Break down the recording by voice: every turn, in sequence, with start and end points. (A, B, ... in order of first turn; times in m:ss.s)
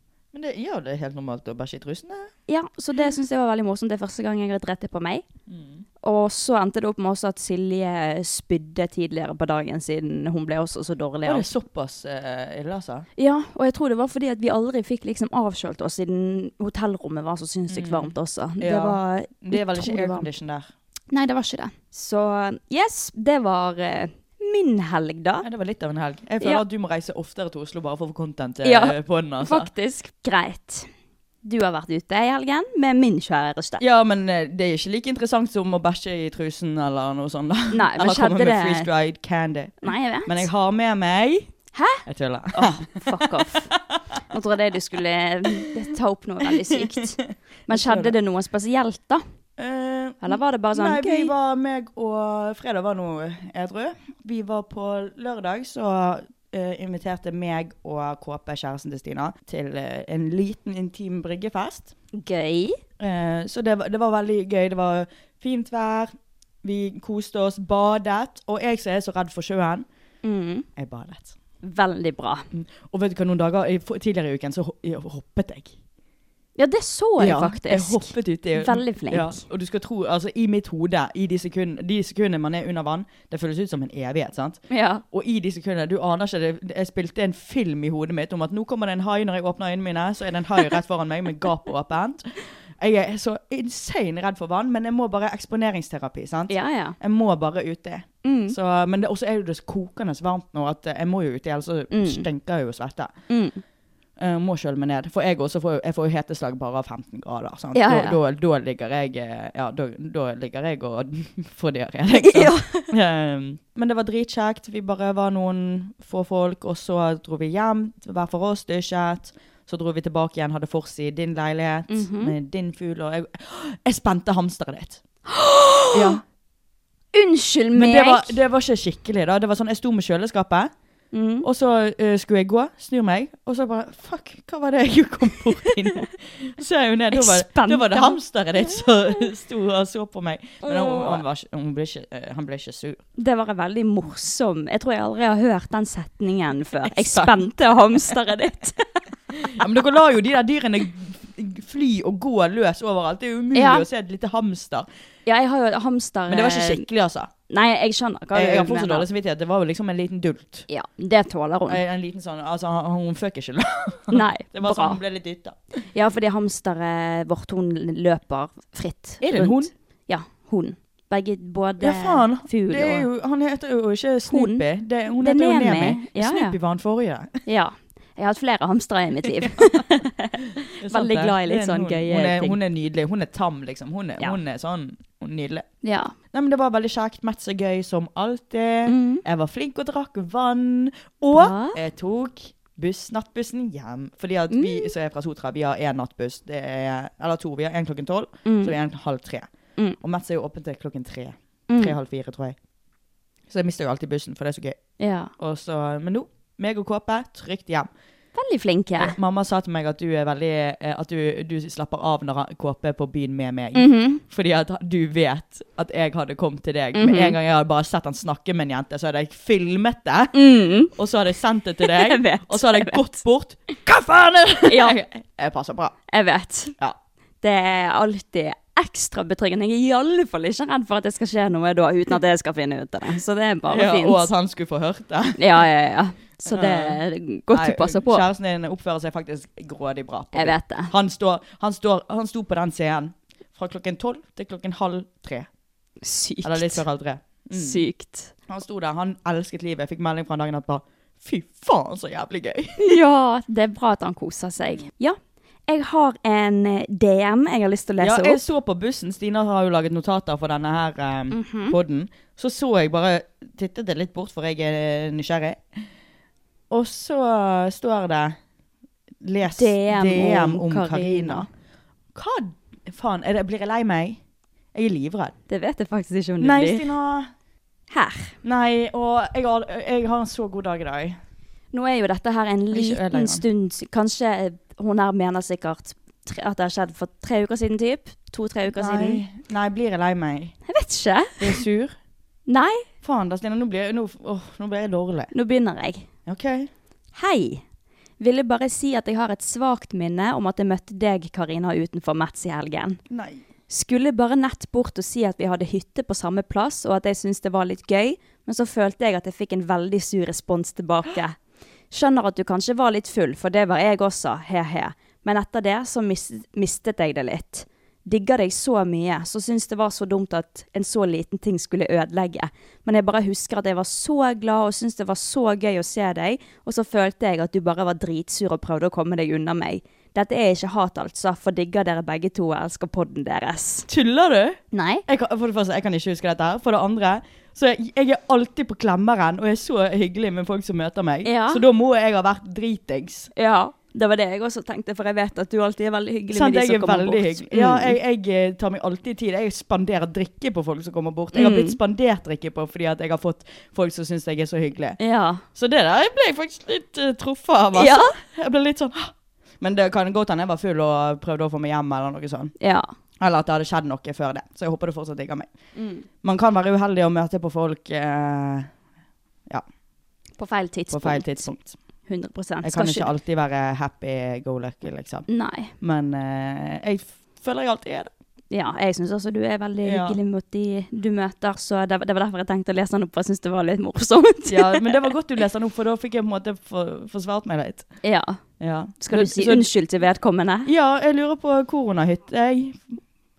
0:00.3-0:02.3 A
0:02.5-0:05.2 B
0:05.5-0:05.8 A
0:06.0-0:11.5 B
0:11.2-0:13.0 A
0:13.2-0:20.3 B
0:17.7-0:20.7 A
0:21.1-0:25.4 B
0:25.4-0:29.7 A
0:28.6-0:30.9 B
0:31.4-0:33.8 B
0:33.8-0:41.5 A
0:37.7-0:38.9 B
0:39.8-0:40.5 B
0:41.7-0:43.7 B
0:42.0-0:44.0 A
0:44.3-0:49.2 B
0:46.7-0:47.0 A
0:47.7-0:48.1 A
0:49.6-1:01.9 A
0:50.2-0:51.3 B
1:02.1-1:02.8 B
1:03.0-1:09.8 A
1:10.2-1:10.7 B
1:10.8-1:11.4 A
1:11.6-1:12.5 B
1:12.5-1:15.8 A
1:16.6-1:19.4 B
1:17.2-1:43.1 A
1:24.7-1:25.0 B
1:36.5-1:37.0 B
1:38.2-1:38.6 B
1:41.9-1:42.3 B
1:43.3-1:43.6 B
1:44.2-2:05.0 A
1:47.7-1:48.2 B
1:52.1-1:52.9 B
2:01.9-2:02.3 B
2:05.3-2:06.2 B
2:05.9-2:06.2 A
2:07.1-2:08.4 B
2:07.7-2:10.7 A
2:11.1-2:11.5 B
2:11.4-2:23.0 A
2:17.1-2:18.2 B
2:20.6-2:21.2 B
2:23.2-2:29.0 B
2:26.8-2:27.4 A
2:29.4-2:34.9 A
2:33.5-2:33.8 B
2:35.2-2:36.8 B
2:36.3-2:37.3 A
2:37.5-2:39.1 B
2:38.3-2:40.6 A
2:40.7-2:41.8 B
2:41.7-2:45.6 A
2:44.1-2:45.0 B
2:45.9-2:53.1 B
2:49.2-2:49.7 A
2:51.8-2:57.3 A
2:54.3-2:54.6 B
2:55.2-2:56.6 B
2:57.4-3:02.6 B
2:59.3-2:59.8 A
3:00.8-3:05.6 A
3:05.8-3:06.1 B
3:06.3-3:19.5 A
3:08.8-3:09.2 B
3:11.3-3:11.8 B
3:14.5-3:14.9 B
3:18.4-3:18.7 B
3:20.0-3:22.6 A
3:21.7-3:22.0 B
3:23.5-3:24.8 A
3:25.0-3:25.3 B
3:25.4-3:27.9 A
3:28.3-3:29.2 B
3:29.0-3:40.4 A
3:33.7-3:34.2 B
3:36.9-3:37.4 B
3:40.3-3:40.9 B
3:40.9-3:46.0 A
3:41.8-3:43.0 B
3:44.6-3:45.0 B
3:46.1-3:46.7 B
3:47.4-3:54.3 B
3:53.7-3:55.6 A
3:55.4-3:58.2 B
3:56.5-3:57.0 A
3:57.5-4:05.5 A
4:00.3-4:00.9 B
4:06.0-4:06.8 B
4:06.4-4:07.8 A
4:07.5-4:08.3 B
4:08.5-4:13.0 A
4:12.8-4:18.4 B
4:18.0-4:25.8 A
4:21.3-4:21.8 B
4:26.7-4:28.4 A
4:29.2-4:31.5 A
4:29.6-4:31.5 B
4:32.1-4:34.2 A
4:34.7-4:35.3 A
4:35.5-4:36.9 B
4:36.4-4:37.3 A
4:37.9-4:38.4 B
4:38.4-4:41.2 A
4:41.7-4:49.2 B
4:42.7-4:43.4 A
4:48.7-4:50.5 A
4:50.7-4:51.6 B
4:51.4-4:52.0 A
4:52.5-4:52.8 B
4:53.0-4:55.3 A
4:55.3-4:56.1 B
4:56.2-4:56.7 A
4:57.1-4:57.6 B
4:58.2-5:03.0 B
5:03.1-5:03.4 A
5:03.7-5:11.4 B
5:11.9-5:33.9 B
5:33.9-5:43.3 A
5:34.7-5:35.0 B
5:41.2-5:41.6 B
5:43.4-5:48.0 B
5:46.3-5:55.0 A
5:51.3-5:51.8 B
5:55.0-5:55.4 B
5:55.5-6:02.5 A
5:57.7-5:58.1 B
6:02.6-6:02.9 B
6:03.2-6:05.5 A
6:05.7-6:06.1 B
6:06.2-6:08.7 A
6:10.4-6:11.5 B
6:10.9-6:11.8 A
6:12.1-6:13.1 B
6:12.6-6:15.3 A
6:15.3-6:15.7 B
6:15.8-6:18.1 A
6:18.5-6:25.1 B
6:19.8-6:20.2 A
6:24.5-6:27.9 A
6:28.0-6:28.4 B
6:28.6-6:29.7 A
6:29.0-6:30.7 B
6:30.6-6:33.0 A